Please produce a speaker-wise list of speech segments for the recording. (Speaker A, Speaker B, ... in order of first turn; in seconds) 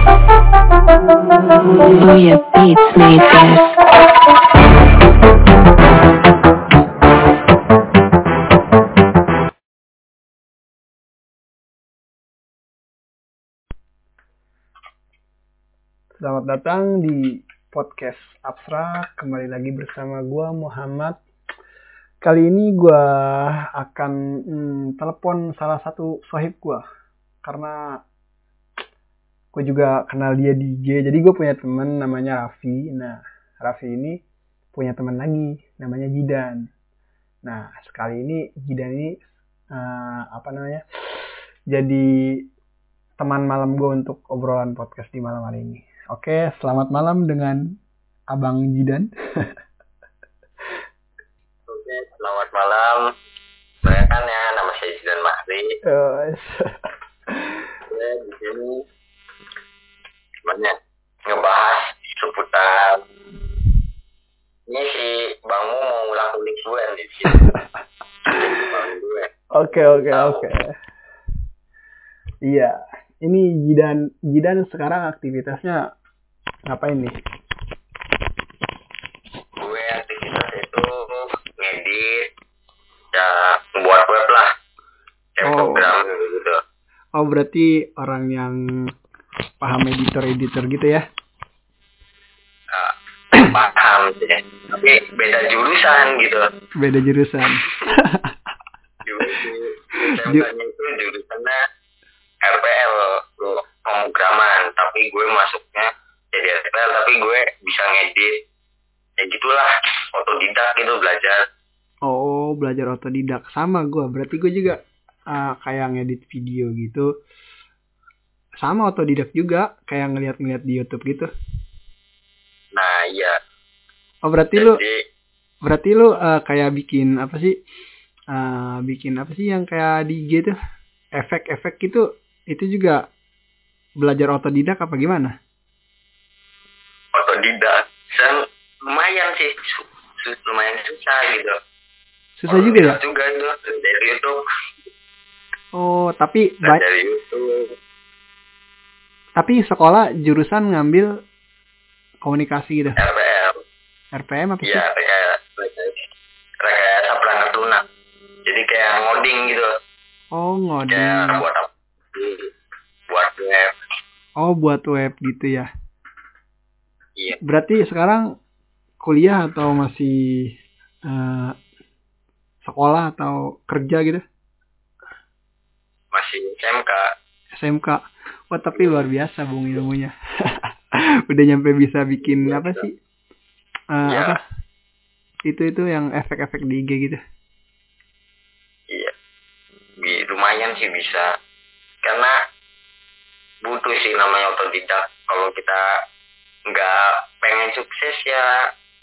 Speaker A: 1.7-3.8
Speaker B: 16.2-21.2, 22.2-26.8, 27.4-28.0, 29.5-34.2, 34.7-36.7, 37.4-40.8, 41.7-42.4, 43.2-47.6, 48.3-49.5, 55.8-56.7, 67.3-67.6, 69.5-70.7, 72.4-75.8, 76.7-77.1, 85.4-85.9, 87.2-88.9, 89.6-91.0, 96.8-98.3, 100.1-100.5, 112.0-114.8, 115.3-117.1, 118.6-121.3, 124.2-124.8, 125.6-127.5, 128.3-130.5, 131.2-133.1, 134.0-135.3, 142.4-143.0, 145.7-146.8, 149.4-151.1, 152.2-153.0, 154.1-154.8, 160.3-161.4, 164.4-165.7, 167.4-168.2, 169.0-170.5, 171.1-171.6, 172.6-174.2, 177.5-182.9, 183.9-184.4, 185.4-187.2
Speaker C: 51.7-53.1, 53.8-55.8, 57.9-58.8, 60.4-60.7, 61.2-63.0, 64.7-67.4, 68.3-69.3, 70.0-70.5, 79.6-82.3, 83.1-84.5, 85.3-86.6, 92.7-96.5, 99.0-101.6, 102.4-108.4, 109.2-111.4, 122.7-123.3, 124.5-125.0, 137.1-141.6, 142.5-144.4, 146.6-147.7, 153.0-153.6, 154.6-156.0, 156.6-157.8, 158.4-159.7, 160.9-162.5, 163.1-163.7, 176.1-177.1, 178.8-179.0, 182.3-182.8, 184.1-184.4, 190.0-191.4, 192.0-192.3, 193.6-195.8, 196.7-198.6